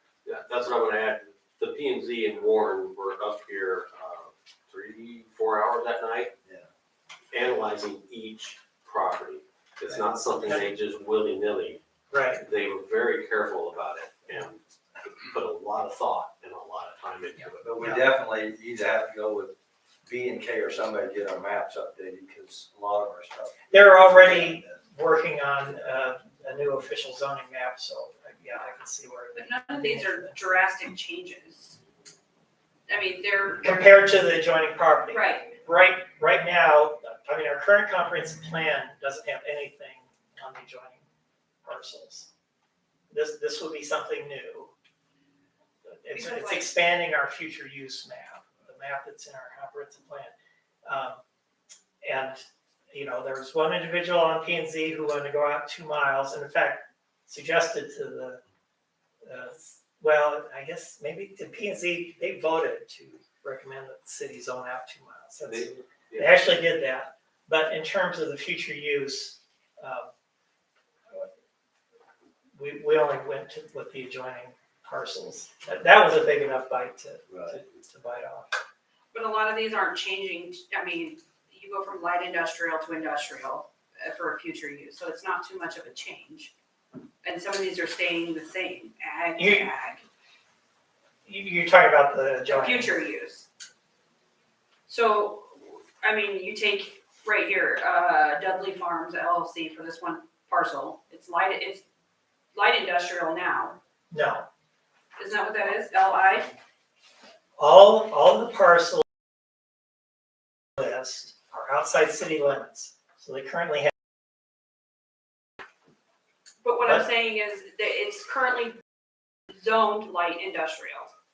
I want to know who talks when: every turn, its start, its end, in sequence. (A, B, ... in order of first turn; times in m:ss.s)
0:00.2-0:06.3 A
0:07.3-0:11.8 A
0:10.0-0:10.7 B
0:12.1-0:12.4 B
0:12.4-0:17.6 A
0:17.6-0:24.8 C
0:17.8-0:18.1 B
0:23.7-0:30.4 B
0:29.3-0:31.8 D
0:32.9-0:33.8 D
0:33.6-0:41.0 B
0:35.1-0:35.6 D
0:41.6-0:42.3 B
0:43.1-0:44.7 B
0:45.8-0:50.3 B
0:46.1-0:46.8 D
0:50.8-0:51.2 B
0:52.0-0:58.4 B
0:59.2-1:10.1 B
1:05.4-1:06.4 A
1:12.6-1:18.5 B
1:17.3-1:17.6 C
1:19.1-1:26.5 D
1:27.2-1:30.0 D
1:29.4-1:29.7 B
1:31.2-1:33.0 B
1:32.4-1:33.4 D
1:34.9-1:41.8 D
1:42.5-1:43.8 D
1:44.1-1:44.5 B
1:45.2-1:46.5 D
1:47.6-1:49.0 B
1:50.8-1:53.9 B
1:56.6-1:58.8 D
1:59.5-2:01.1 D